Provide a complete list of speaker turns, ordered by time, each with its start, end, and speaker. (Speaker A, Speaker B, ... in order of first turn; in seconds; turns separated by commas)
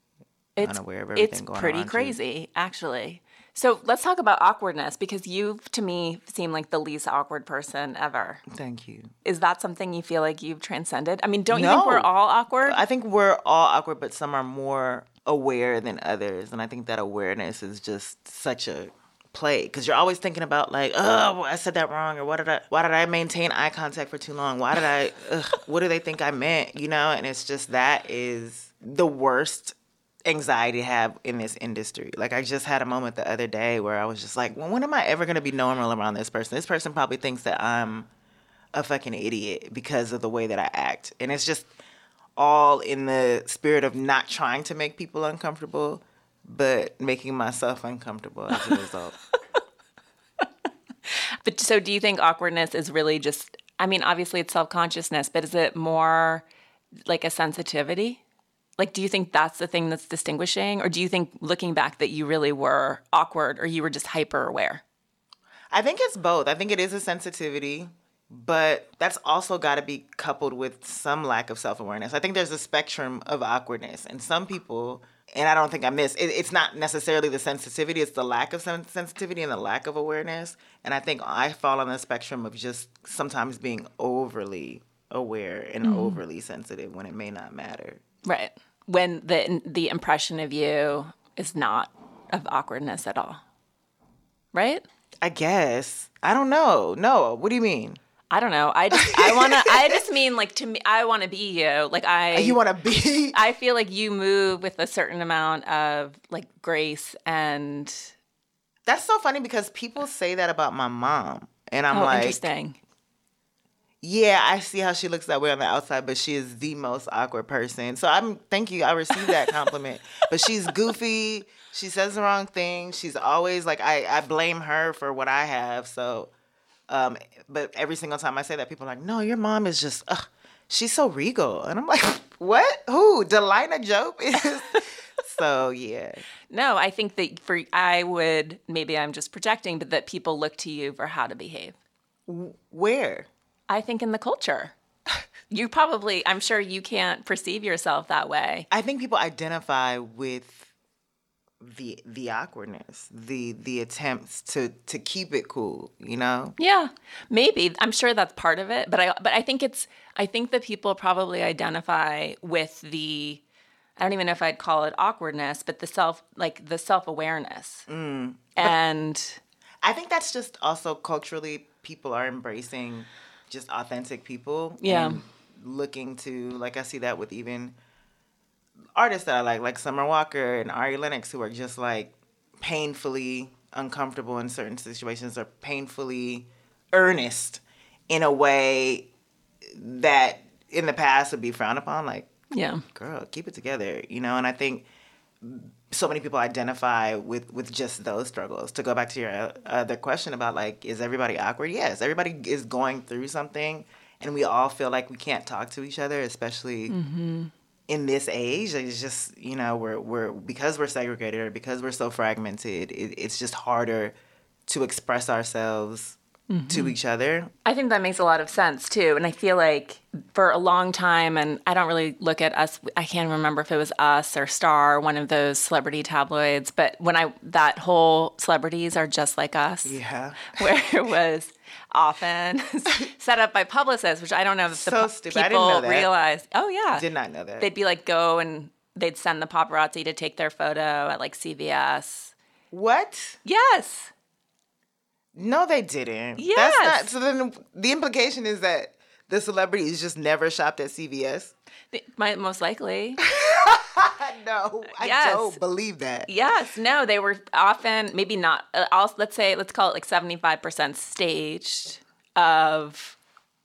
Speaker A: 0.6-8.4, Speaker B: 0.6-2.2, Speaker B: 8.5-9.1, Speaker A: 9.2-12.8, Speaker B: 11.5-12.1, Speaker B: 12.6-38.1, Speaker B: 38.7-41.7, Speaker B: 42.4-49.2, Speaker A: 51.1-56.4, Speaker A: 57.0-58.2, Speaker A: 58.8-64.8, Speaker B: 65.7-88.0, Speaker A: 85.8-86.2, Speaker A: 88.2-93.4, Speaker A: 94.5-94.8, Speaker B: 95.2-98.0, Speaker A: 98.3-102.6, Speaker B: 98.9-100.0, Speaker B: 102.3-103.4, Speaker A: 103.3-108.1, Speaker B: 108.8-112.4, Speaker A: 111.9-112.8, Speaker B: 114.0-126.3, Speaker B: 126.9-136.2, Speaker A: 136.5-141.8, Speaker B: 142.3-143.3, Speaker A: 143.7-144.7, Speaker A: 145.5-148.7, Speaker B: 148.7-150.7, Speaker B: 151.6-156.6, Speaker A: 156.6-163.4, Speaker A: 164.0-167.9, Speaker B: 167.9-168.7, Speaker A: 168.6-169.4, Speaker B: 169.8-177.8, Speaker A: 174.8-175.2, Speaker B: 178.9-189.1, Speaker B: 189.6-192.3, Speaker A: 192.5-192.8, Speaker B: 192.9-194.8, Speaker B: 195.4-207.0, Speaker A: 206.9-207.5, Speaker B: 207.9-214.1, Speaker B: 214.7-217.5, Speaker A: 216.5-216.9, Speaker A: 217.6-230.0, Speaker B: 229.8-230.5, Speaker A: 230.5-237.0, Speaker B: 234.7-236.1, Speaker B: 236.9-237.7, Speaker A: 237.6-242.3, Speaker B: 242.7-243.4, Speaker A: 243.4-244.1, Speaker B: 245.3-251.5, Speaker A: 246.4-247.1, Speaker A: 251.9-253.2, Speaker B: 253.2-256.3, Speaker A: 254.9-255.6, Speaker A: 256.3-263.2